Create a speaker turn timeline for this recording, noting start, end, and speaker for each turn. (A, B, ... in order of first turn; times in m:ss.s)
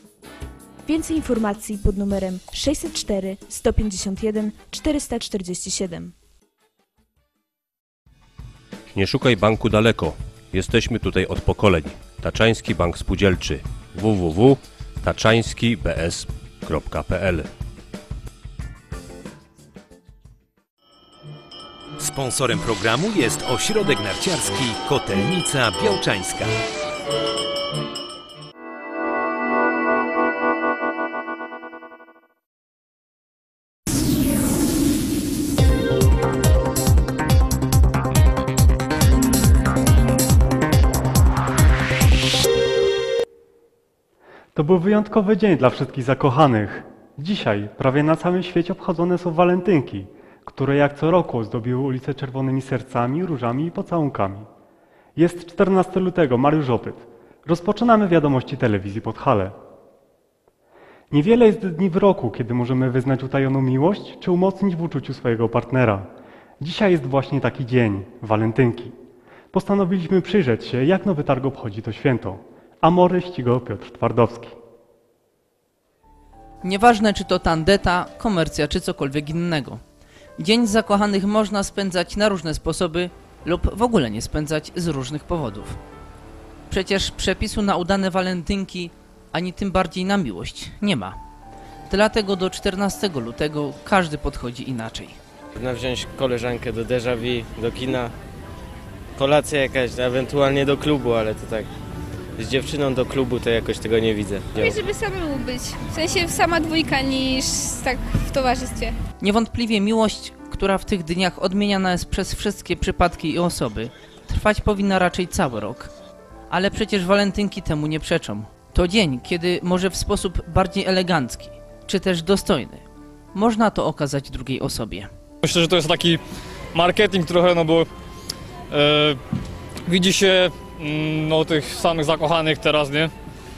0:00.8-0:06.1 A
0:08.9-0:17.5 B
0:22.0-0:26.6 C
0:44.5-0:54.5 D
0:55.2-0:59.5 D
1:01.1-1:06.1 D
1:06.6-1:08.9 D
1:09.5-1:14.6 D
1:16.6-1:19.8 E
1:20.4-1:25.8 E
1:26.7-1:31.2 E
1:31.9-1:35.2 E
1:35.6-1:38.1 F
1:39.2-1:41.7 F
1:42.4-1:44.7 F
1:44.6-1:48.9 G
1:49.2-1:55.9 E
1:56.5-2:05.1 E
2:05.4-2:06.2 H
2:06.7-2:07.9 H
2:08.7-2:09.2 H
2:09.9-2:13.1 H